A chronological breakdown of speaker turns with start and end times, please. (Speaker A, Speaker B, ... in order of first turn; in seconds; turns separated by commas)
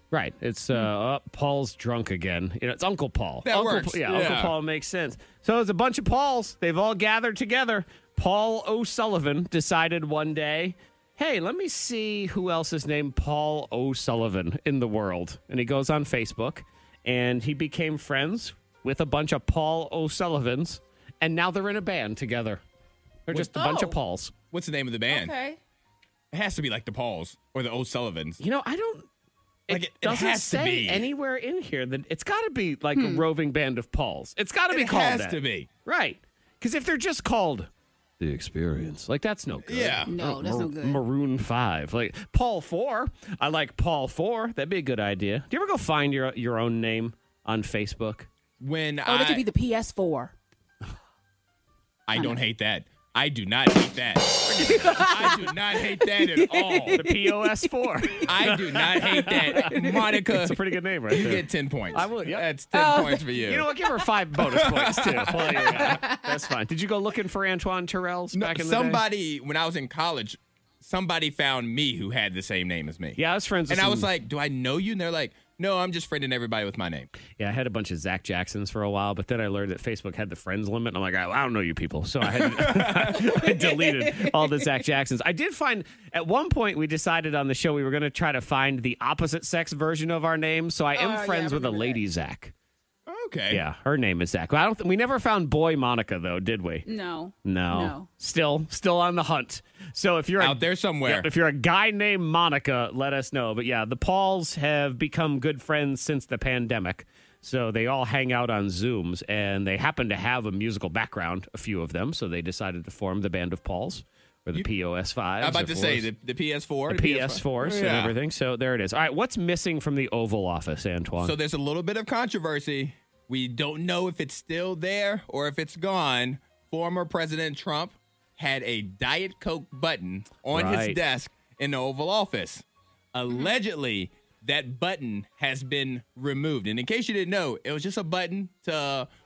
Speaker A: 0.1-22.6, Speaker B: 3.4-4.5, Speaker A: 23.3-24.3, Speaker C: 23.5-24.0, Speaker B: 24.5-25.3, Speaker C: 25.1-25.6, Speaker B: 26.3-28.4, Speaker A: 28.4-29.1, Speaker A: 29.7-37.7, Speaker B: 29.7-31.1, Speaker C: 32.9-33.2, Speaker B: 34.7-35.7, Speaker A: 38.2-48.3, Speaker B: 39.6-40.1, Speaker C: 40.1-41.0, Speaker B: 48.6-49.4, Speaker C: 49.0-50.3, Speaker B: 52.1-57.0, Speaker A: 54.5-55.3, Speaker C: 54.5-58.2, Speaker A: 57.0-62.5, Speaker B: 58.2-60.6, Speaker C: 59.2-60.0, Speaker B: 61.1-63.7, Speaker C: 62.7-63.3, Speaker A: 63.4-69.0, Speaker B: 64.4-66.0, Speaker C: 65.5-66.3, Speaker B: 68.3-77.1, Speaker A: 73.2-74.1, Speaker A: 77.4-92.5, Speaker B: 82.2-83.4, Speaker C: 83.6-84.4, Speaker C: 90.9-92.0, Speaker B: 93.1-93.6, Speaker A: 93.5-96.8, Speaker C: 96.8-98.1, Speaker A: 97.4-116.1, Speaker B: 100.4-101.3, Speaker B: 115.4-118.1, Speaker A: 116.9-121.3, Speaker B: 121.2-139.1, Speaker A: 130.5-131.0